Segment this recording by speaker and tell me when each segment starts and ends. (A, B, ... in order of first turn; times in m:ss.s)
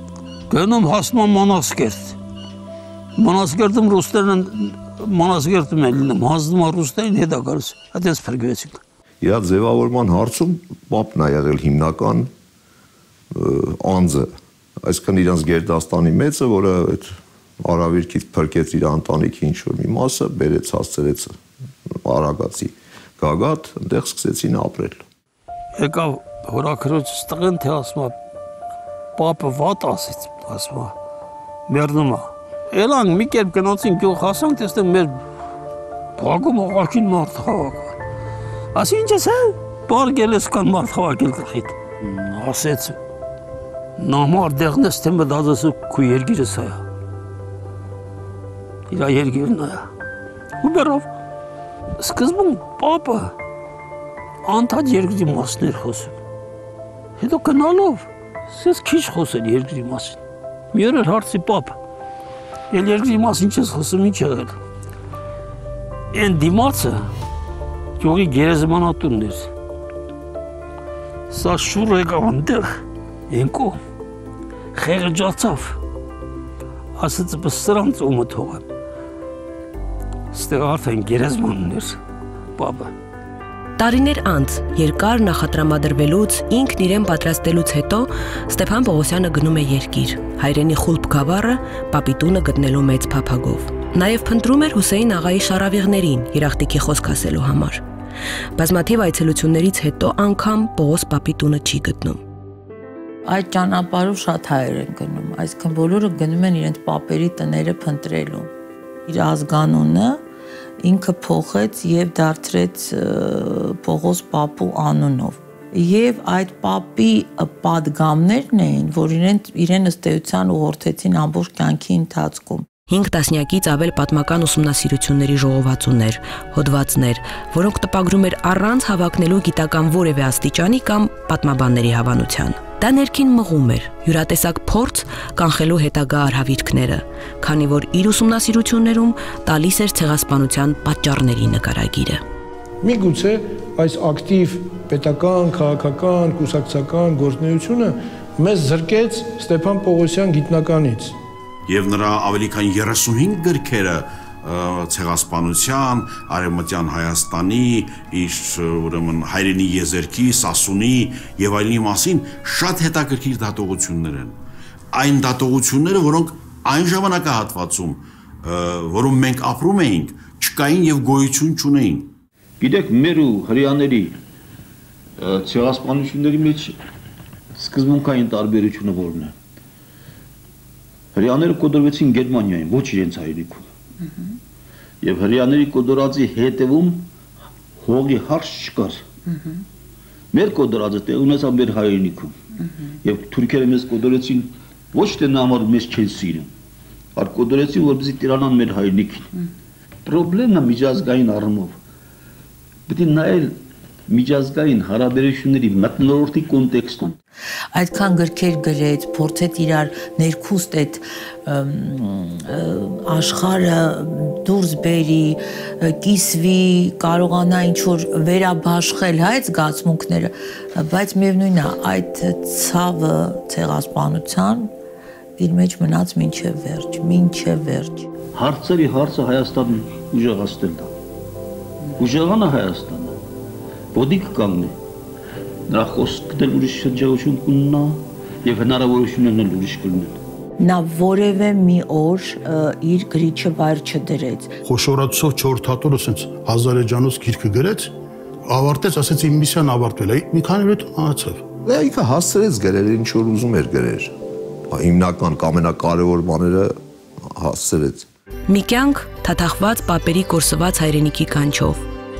0:00.5-0:02.2 A
0:03.2-0:08.8 A
0:09.2-0:12.3 B
0:13.3-0:14.3 B
0:14.8-0:21.4 B
0:21.9-0:25.0 B
0:25.7-0:28.2 A
0:29.2-0:30.9 A
0:31.7-0:35.2 A
0:36.2-0:38.0 A
0:38.7-0:43.0 A
0:44.0-0:46.8 A
0:48.9-0:49.9 A
0:50.6-0:51.1 A
0:52.0-0:53.4 A
0:54.4-0:56.2 A
0:57.2-1:00.2 A
1:00.7-1:01.8 A
1:02.7-1:04.6 A
1:06.1-1:07.1 A
1:08.0-1:09.5 A
1:11.3-1:12.7 A
1:13.3-1:13.8 A
1:14.7-1:15.8 A
1:17.0-1:18.6 A
1:20.3-1:22.0 A
1:22.6-1:22.9 A
1:23.8-1:37.8 C
1:38.6-1:42.2 C
1:43.2-1:48.5 D
1:49.1-1:50.2 D
1:50.8-2:02.7 D
2:02.9-2:22.2 C
2:22.8-2:31.2 E
2:31.7-2:44.4 F
2:44.9-2:52.1 F
2:52.6-2:54.2 A
2:55.2-2:56.8 A
2:57.6-2:59.4 A
3:01.1-3:03.7 A
3:05.0-3:07.1 A
3:07.8-3:09.0 A
3:10.3-3:12.4 A
3:13.0-3:16.5 A
3:17.2-3:19.3 A
3:20.1-3:21.8 A
3:22.9-3:23.6 A
3:24.1-3:27.2 A
3:27.7-3:44.7 D
3:45.4-3:48.1 D
3:48.3-3:50.9 A
3:52.0-3:53.2 A
3:53.9-3:54.8 A
3:55.7-4:00.2 A
4:00.6-4:04.6 D
4:04.6-4:07.9 G
4:08.5-4:11.4 G
4:11.6-4:14.1 B
4:14.7-4:18.1 B
4:18.5-4:21.8 C